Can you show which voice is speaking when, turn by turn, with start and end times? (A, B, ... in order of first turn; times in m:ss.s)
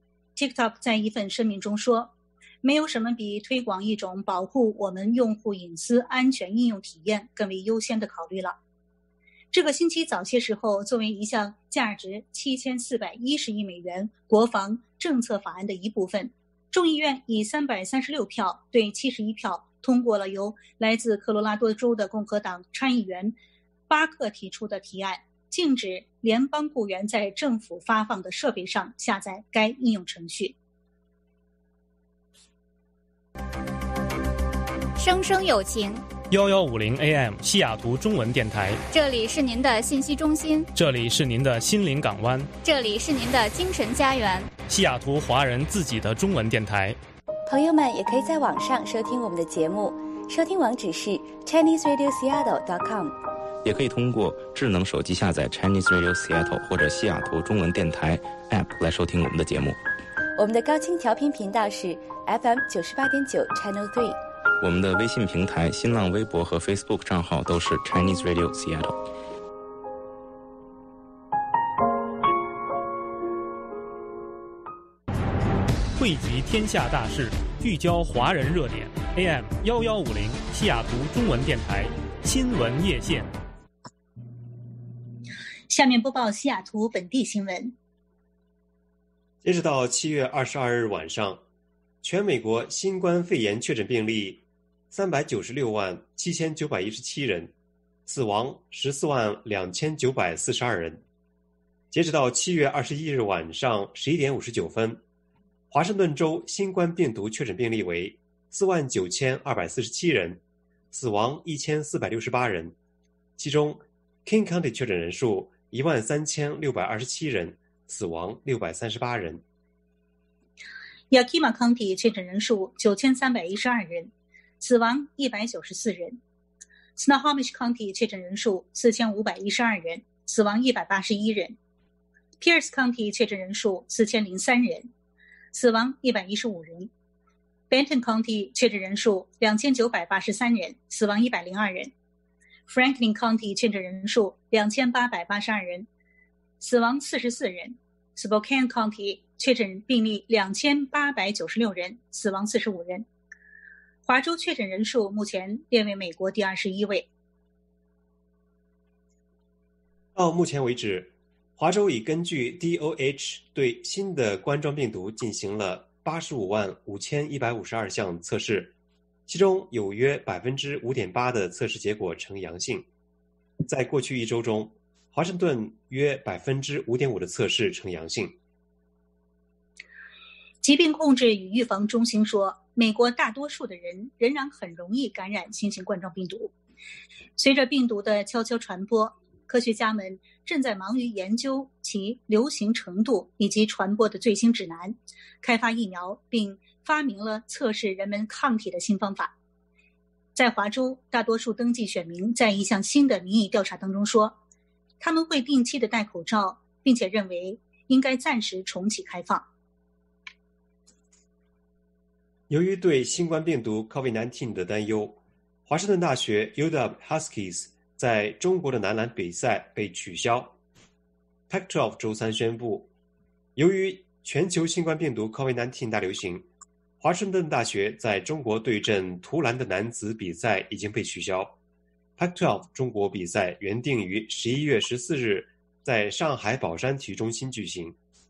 0:00.4-0:08.6 A
0:09.5-0:23.4 A
0:23.9-0:30.6 A
0:35.0-0:36.0 B
0:36.3-0:38.8 C
0:38.9-0:40.7 B
0:40.8-0:42.5 C
0:42.6-0:44.5 B
0:44.7-0:47.0 C
0:47.5-0:53.2 D
0:53.6-0:59.8 E
1:00.4-1:04.2 D
1:04.6-1:09.0 E
1:16.0-1:23.3 C
1:25.7-1:27.8 A
1:29.4-1:31.4 F
1:32.0-1:37.5 F
1:38.1-1:41.0 F
1:41.9-1:45.0 F
1:45.7-1:50.4 F
1:50.9-1:52.8 F
1:53.4-1:59.4 F
2:01.1-2:06.2 A
2:07.0-2:11.6 A
2:12.4-2:14.9 A
2:15.5-2:16.9 A
2:17.7-2:21.9 A
2:22.7-2:25.9 A
2:26.6-2:33.1 A
2:34.1-2:37.1 A
2:40.2-2:48.8 F
2:49.3-2:52.9 F
2:53.6-2:58.4 F
3:00.6-3:06.5 A
3:07.4-3:19.4 A
3:20.4-3:24.4 A
3:25.0-3:29.5 A
3:32.5-3:40.6 F
3:41.5-3:42.9 F
3:43.6-3:46.5 F
3:47.0-3:51.6 F
3:52.2-3:58.0 F